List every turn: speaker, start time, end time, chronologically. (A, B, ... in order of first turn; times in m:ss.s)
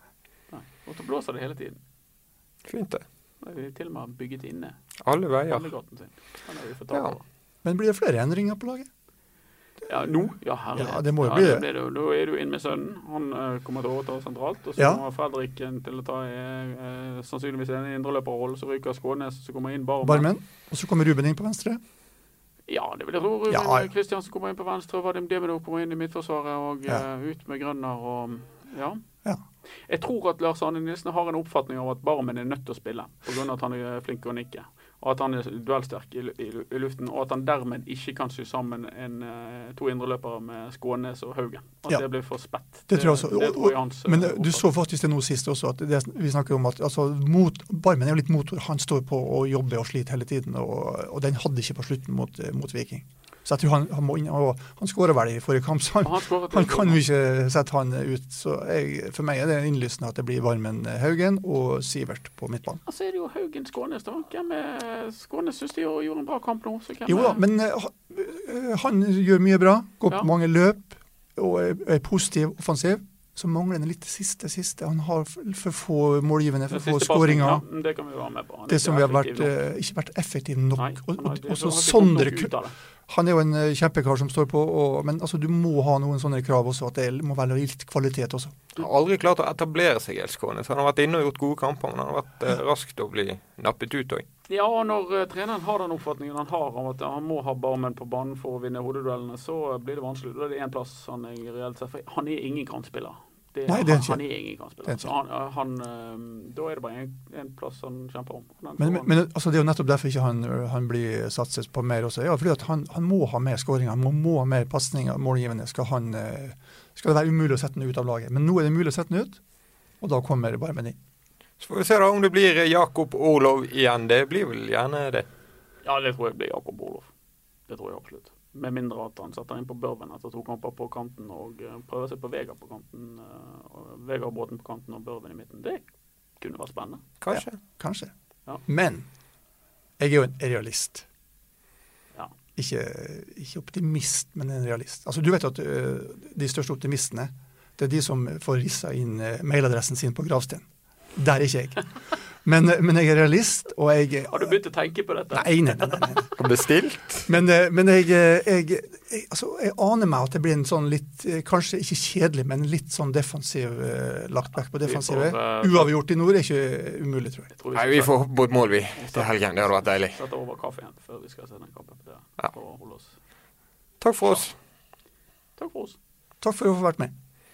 0:00.5-0:01.8 A
0:02.6-0:03.0 B
0:03.4-0:04.8 A
0:05.0-0:05.7 B
0:05.5-0:07.2 A
0:07.6-0:08.9 C
0:09.9-0:20.3 A
0:10.7-0:11.6 C
0:14.8-0:15.0 C
0:20.0-0:21.8 C
0:22.7-0:29.0 A
0:23.5-0:23.9 C
0:29.9-0:44.6 A
0:42.9-1:02.8 C
0:56.0-0:57.0 A
1:02.8-1:07.4 A
1:07.0-1:17.6 C
1:16.7-1:19.6 A
1:18.7-1:22.5 C
1:20.8-1:22.7 A
1:23.1-1:28.6 C
1:28.8-1:34.2 B
1:34.5-1:49.1 A
1:43.7-1:44.2 C
1:44.8-1:45.1 C
1:48.8-1:59.4 C
2:00.0-2:01.0 C
2:01.6-2:05.2 B
2:05.8-2:07.1 A
2:07.7-2:15.8 A
2:16.4-2:17.0 A
2:17.2-2:17.6 B
2:17.3-2:18.1 C
2:18.6-2:19.1 C
2:20.0-2:21.0 C
2:22.6-2:31.8 C
2:32.4-2:34.6 C
2:34.3-2:36.3 A
2:35.3-2:36.3 C
2:36.4-2:37.3 B
2:37.3-2:47.5 C
2:44.8-2:45.9 A
2:47.5-2:48.1 A
2:47.7-2:50.2 B
2:49.0-2:53.2 A
2:54.0-2:54.5 B
2:55.6-2:56.0 A
2:56.4-2:57.1 C